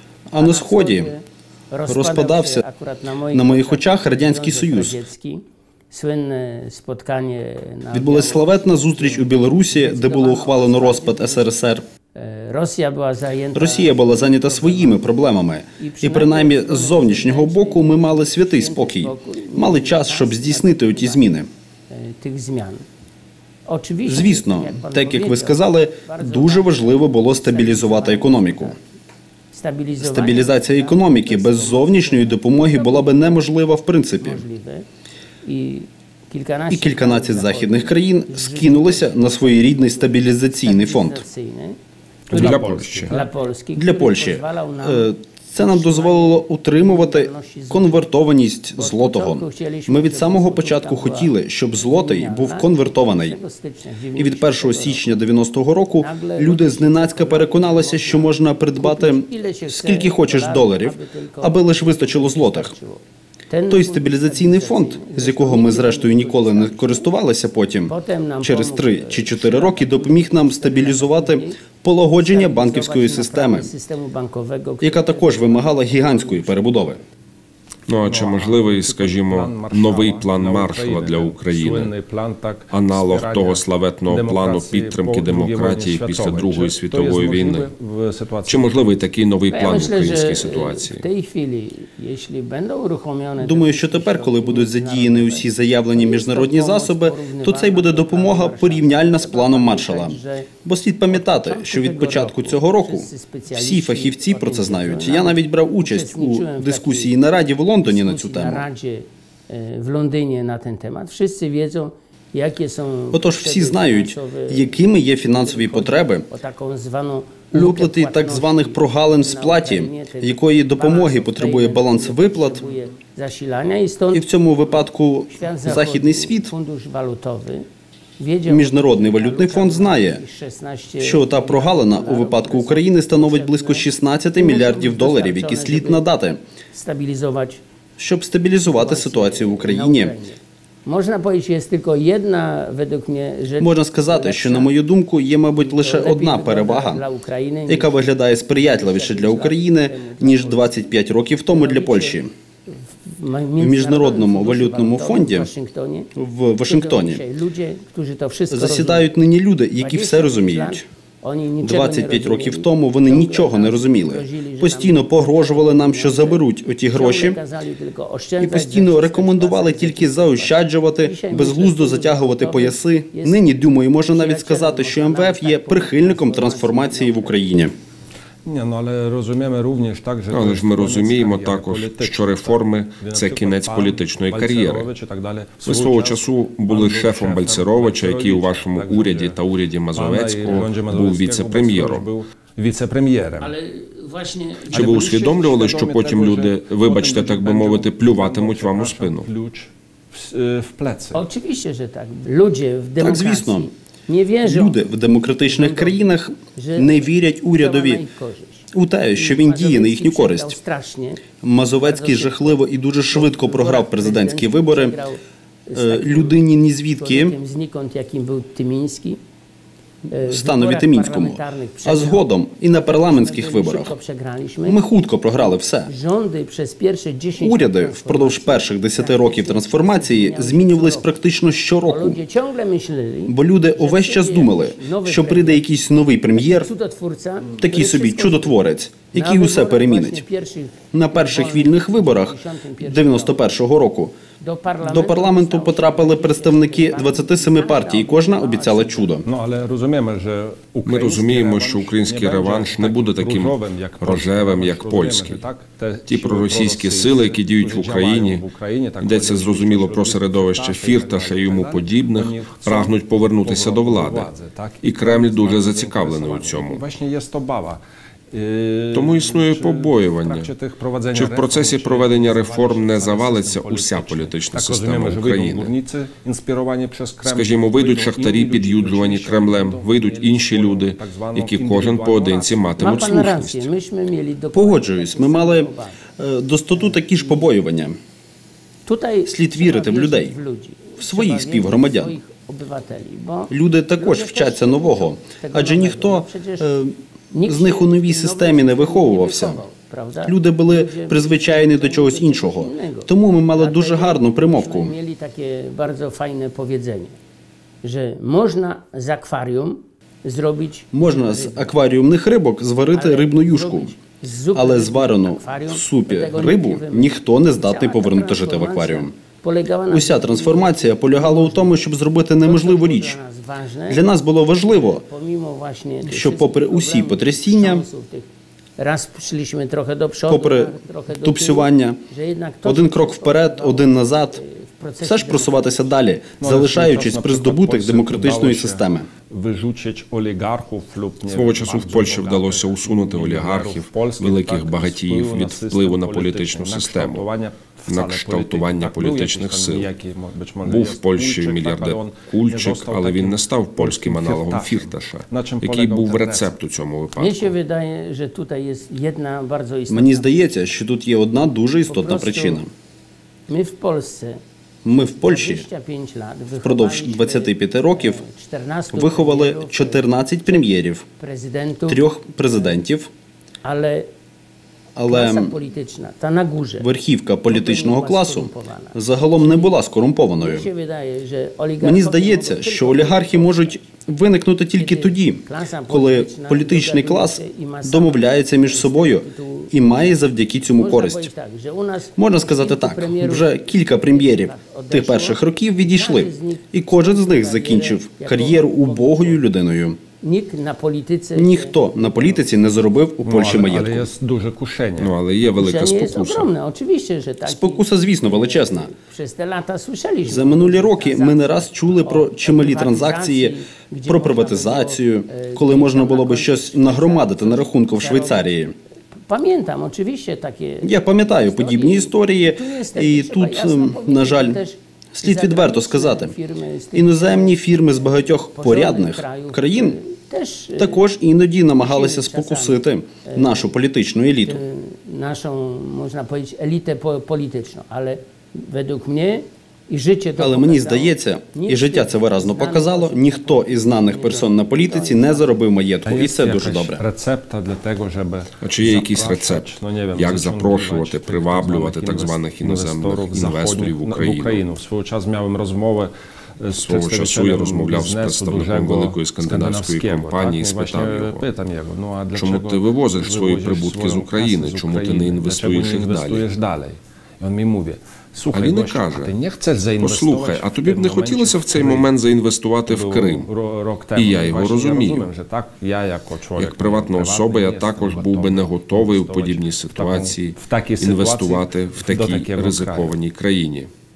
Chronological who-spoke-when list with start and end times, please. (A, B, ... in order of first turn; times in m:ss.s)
0:00.3-0:01.1 A
0:00.4-0:11.5 B
0:01.9-0:02.6 A
0:03.3-0:05.0 A
0:07.9-0:11.8 A
0:12.1-0:15.1 B
0:13.5-0:21.5 A
0:15.8-0:21.2 B
0:21.9-0:22.8 B
0:23.7-0:28.8 B
0:24.0-0:28.8 A
0:29.5-0:33.4 B
0:30.0-0:34.4 A
0:34.2-0:34.8 B
0:35.4-0:41.8 B
0:36.7-0:41.2 A
0:42.3-0:43.3 C
0:42.3-0:43.1 D
0:42.4-0:48.1 B
0:43.8-0:53.4 A
0:48.7-0:55.0 B
0:54.2-1:02.7 A
0:56.0-1:07.1 B
1:03.7-1:13.7 A
1:07.8-1:11.6 B
1:12.2-1:17.0 B
1:14.8-1:17.0 A
1:17.9-1:21.9 D
1:18.0-1:29.0 C
1:22.7-1:27.7 D
1:28.4-1:31.0 D
1:29.5-1:40.5 B
1:33.4-1:48.6 A
1:41.1-1:47.2 B
1:47.8-2:07.6 B
1:53.1-1:56.3 A
1:57.5-2:02.7 A
2:04.1-2:06.5 A
2:08.2-2:16.0 B
2:08.5-2:10.2 A
2:11.0-2:16.4 A
2:16.7-2:17.6 B
2:18.0-2:20.2 A
2:18.6-2:24.8 B
2:23.6-2:27.0 A
2:25.6-2:30.8 B
2:27.7-2:32.3 A
2:31.5-2:32.2 B
2:33.0-2:36.1 B
2:33.6-2:35.5 A
2:36.2-2:37.2 A
2:36.7-2:39.1 B
2:38.5-2:40.8 A
2:39.7-2:53.4 B
2:41.6-2:47.4 A
2:48.4-2:57.7 A
2:54.0-2:57.4 B
2:58.4-3:09.4 C
3:00.3-3:04.9 D
3:05.6-3:12.1 D
3:09.9-3:13.5 C
3:13.4-3:14.9 B
3:14.7-3:21.2 C
3:14.7-3:19.3 D
3:21.1-3:24.8 B
3:23.0-3:23.7 A
3:24.4-3:28.0 A
3:25.4-3:31.2 B
3:28.7-3:30.6 A
3:31.4-3:35.0 A
3:31.8-3:39.2 B
3:35.7-3:37.4 A
3:40.1-3:51.1 B
3:40.1-3:43.9 A
3:44.6-3:45.9 A
3:47.4-3:52.2 A
3:51.8-3:55.6 B
3:53.3-3:56.7 A
3:56.3-4:03.5 B
3:57.6-4:00.2 A
4:00.9-4:04.1 A
4:04.4-4:09.2 B
4:04.8-4:09.2 A
4:09.2-4:42.8 C
4:10.8-4:15.4 D
4:16.1-4:18.4 D
4:19.0-4:24.3 D
4:24.8-4:26.8 D
4:28.9-4:30.5 D
4:31.1-4:35.7 D
4:37.2-4:43.7 D
4:42.8-4:46.0 B
4:44.5-4:48.0 A
4:46.7-4:47.5 B
4:48.8-4:56.7 B
4:49.2-4:50.3 A
4:51.0-4:52.2 A
4:53.5-4:59.6 A
4:57.3-5:07.2 B
5:00.2-5:04.9 A
5:07.8-5:11.8 B
5:10.9-5:13.9 A
5:12.9-5:21.9 B
5:14.5-5:19.1 A
5:19.9-5:23.2 A
5:22.4-5:24.0 B
5:23.9-5:25.0 A
5:24.7-5:35.9 B
5:26.0-5:27.8 A
5:30.3-5:32.0 A
5:32.6-5:34.4 A
5:35.0-5:39.1 A
5:36.4-5:56.5 C
5:41.3-5:47.2 D
5:47.9-5:49.9 D
5:50.6-5:57.5 D
5:57.2-6:00.3 B
5:59.9-6:02.7 A
6:01.8-6:02.6 B
6:03.5-6:04.4 B
6:04.8-6:05.6 A
6:05.0-6:12.8 B
6:06.6-6:08.2 A
6:08.9-6:11.0 A
6:11.9-6:13.1 A
6:13.6-6:14.1 B
6:15.0-6:15.5 A
6:15.1-6:16.9 B
6:16.8-6:20.7 A
6:17.5-6:19.7 B
6:20.4-6:23.8 B
6:21.8-6:31.3 A
6:24.8-6:29.8 B
6:30.7-6:39.4 B
6:32.2-6:40.0 A
6:40.2-6:42.4 B
6:41.3-6:44.1 A
6:43.2-6:45.1 C
6:45.0-6:46.5 D
6:45.4-6:58.5 B
6:47.4-6:48.9 A
6:50.2-6:53.6 A
6:54.1-6:58.7 A
6:59.3-7:11.1 B
7:00.8-7:04.6 A
7:05.1-7:06.4 A
7:06.9-7:10.0 A
7:10.8-7:14.6 A
7:11.8-7:13.7 B
7:14.4-7:25.6 B
7:20.4-7:27.0 A
7:26.0-7:52.1 C
7:28.6-7:34.6 D
7:36.7-7:41.4 D
7:42.3-7:46.5 D
7:48.5-7:49.3 D
7:50.0-7:53.5 D
7:52.8-8:03.2 C
7:54.2-7:55.3 D
7:56.6-8:03.9 D